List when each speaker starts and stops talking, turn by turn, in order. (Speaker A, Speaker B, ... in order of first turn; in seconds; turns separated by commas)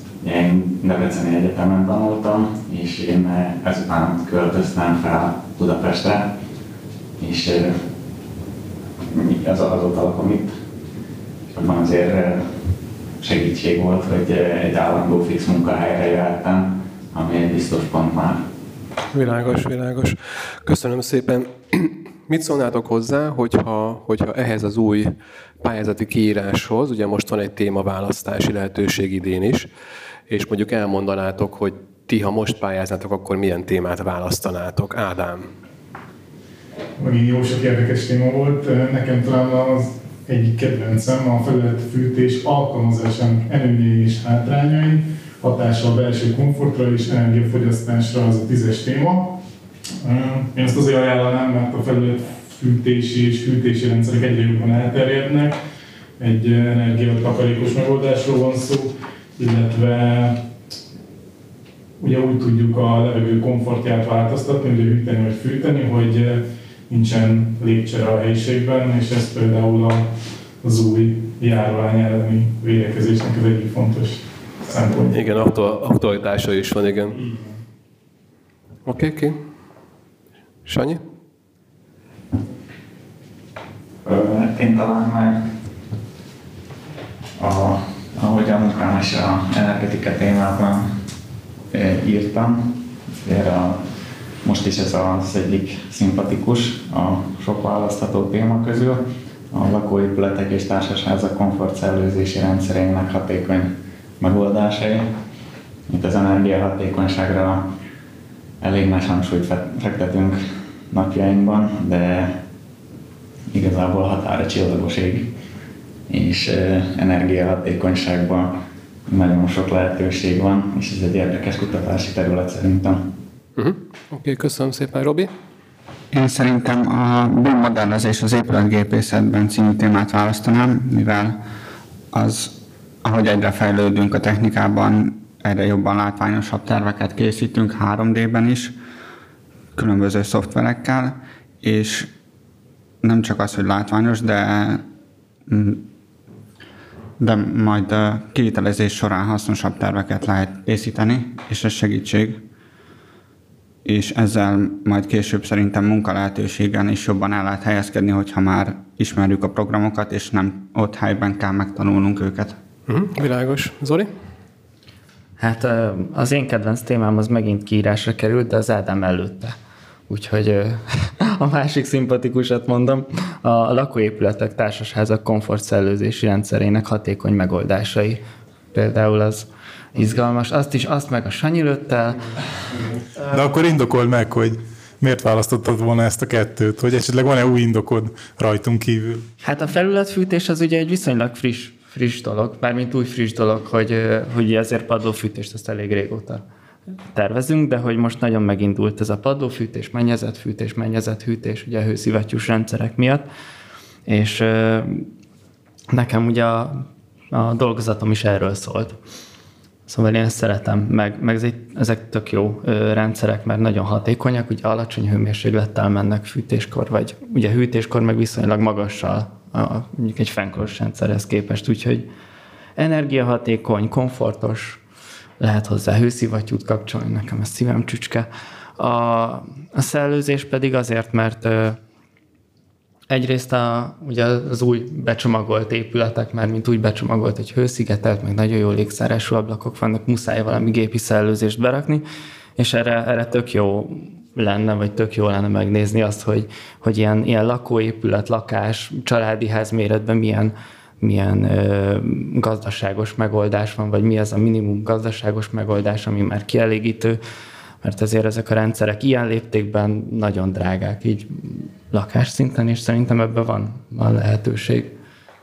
Speaker A: 0.2-6.3, Speaker A: 7.2-7.7, Speaker A: 9.1-10.5, Speaker A: 11.5-12.4, Speaker A: 13.2-18.4, Speaker B: 19.1-29.7, Speaker B: 30.3-35.5, Speaker C: 37.0-49.4, Speaker C: 50.0-55.6, Speaker C: 56.2-60.4, Speaker C: 62.0-70.1, Speaker C: 70.6-75.2, Speaker B: 75.1-77.2, Speaker B: 78.9-79.4, Speaker B: 80.7-81.0, Speaker A: 84.0-85.5, Speaker A: 87.4-90.9, Speaker A: 91.7-93.8, Speaker A: 94.4-105.0, Speaker A: 105.9-107.7, Speaker A: 108.6-110.4, Speaker A: 110.9-112.4, Speaker A: 113.5-115.3, Speaker A: 116.1-123.1, Speaker B: 123.6-125.3, Speaker D: 126.1-131.4, Speaker D: 132.1-138.8, Speaker D: 139.8-142.1, Speaker D: 143.0-144.8, Speaker D: 145.5-145.9, Speaker D: 147.2-152.4, Speaker D: 153.8-162.6, Speaker B: 162.9-164.1, Speaker E: 165.4-169.5, Speaker E: 170.1-178.2, Speaker E: 178.7-182.4, Speaker C: 183.2-189.2, Speaker E: 189.4-196.4, Speaker E: 197.1-203.3, Speaker E: 204.1-205.1, Speaker E: 205.9-209.0, Speaker E: 209.9-222.1, Speaker E: 222.8-224.8, Speaker E: 225.4-231.8, Speaker E: 233.1-242.0, Speaker E: 242.6-257.2, Speaker E: 257.8-264.9